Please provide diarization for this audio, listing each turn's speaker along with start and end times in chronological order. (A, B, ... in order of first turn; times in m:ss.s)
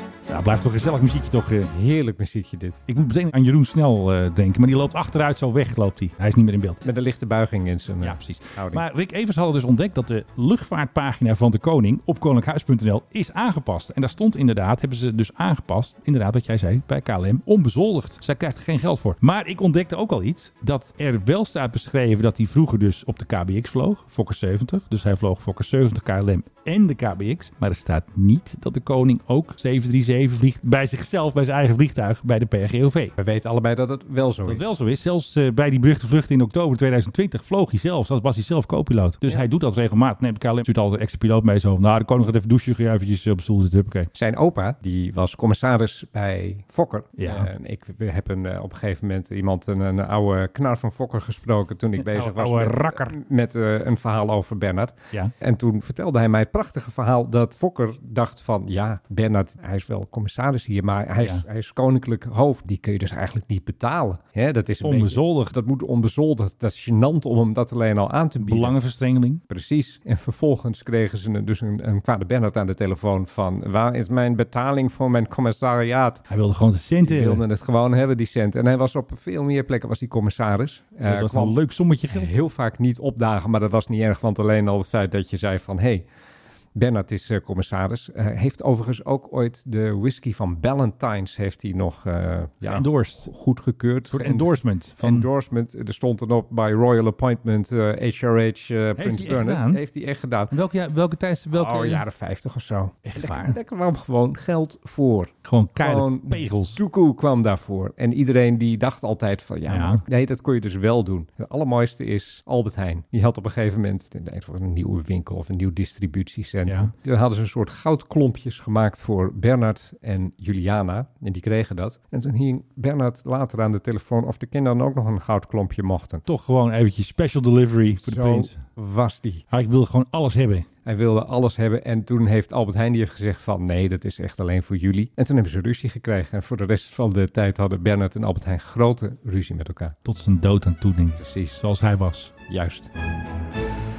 0:00.3-0:01.7 A
0:01.7-0:02.8 B
0:02.9-0:06.8 A
0:06.8-0:08.8 B
0:08.0-0:33.1 A
0:33.2-0:34.6 B
0:34.4-0:44.1 A
0:44.1-1:08.8 B
0:47.2-0:47.5 A
0:52.0-0:53.2 A
1:01.2-1:01.4 A
1:04.8-1:05.5 A
1:08.4-1:09.4 A
1:09.5-1:16.3 B
1:16.3-1:17.4 A
1:17.0-1:21.6 B
1:21.0-1:22.3 A
1:22.1-1:26.0 B
1:26.8-1:40.5 B
1:32.6-1:33.3 A
1:34.1-1:35.3 A
1:39.0-1:39.8 A
1:40.5-1:42.0 A
1:41.5-2:06.2 B
1:43.0-1:43.6 A
1:45.4-1:46.8 A
1:49.7-1:50.0 A
1:56.6-1:56.9 A
2:06.3-2:08.6 A
2:08.0-2:09.4 B
2:09.5-2:10.7 A
2:10.8-2:19.9 B
2:20.0-2:22.3 A
2:21.2-2:21.6 B
2:22.5-2:22.9 B